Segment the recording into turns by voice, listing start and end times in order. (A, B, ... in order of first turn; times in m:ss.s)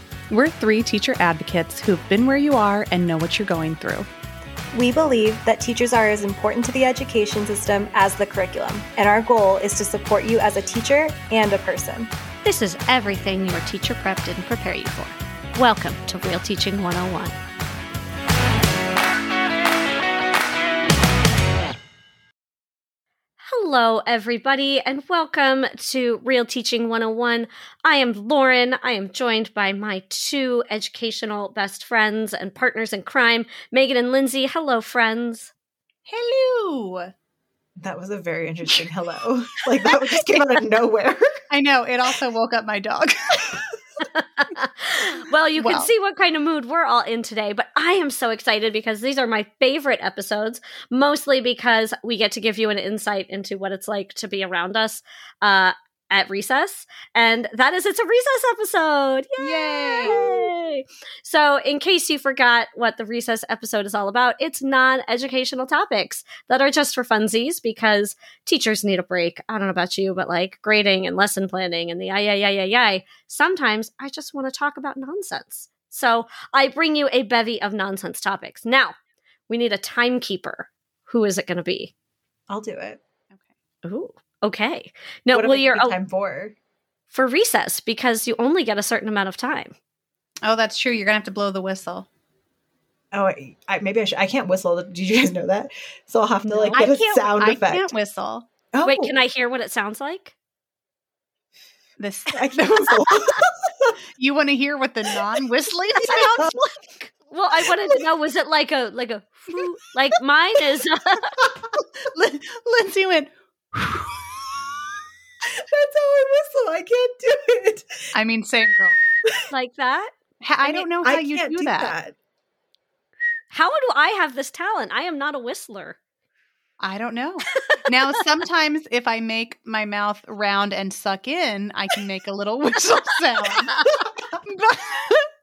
0:00.3-0:04.1 A
0:04.7-0:12.1 B
0:12.4-0:17.4 C
0:23.4-0:35.5 C
0:36.1-0:37.1 A
0:37.8-0:41.2 B
0:41.5-0:43.6 A
0:44.1-1:18.9 C
0:45.6-0:45.9 A
0:59.4-1:00.5 A
1:19.5-1:21.9 C
1:22.5-1:23.0 B
1:23.8-1:26.0 C
1:25.3-1:26.6 B
1:27.1-1:29.7 C
1:30.4-1:32.1 A
1:33.1-1:37.9 B
1:36.5-1:36.8 C
1:36.7-1:38.5 A
1:38.7-1:39.2 B
1:38.8-1:40.4 C
1:42.0-1:43.2 A
1:42.3-1:43.9 B
1:44.2-1:47.1 A
1:47.3-1:51.3 C
1:47.7-1:48.0 B
1:52.0-1:54.1 A
1:55.7-1:57.8 B
1:58.1-1:59.0 A
1:59.5-2:00.1 C
2:00.4-2:02.0 A
2:00.6-2:02.1 B
2:03.5-2:06.0 C
2:06.8-2:15.2 A
2:13.4-2:13.8 C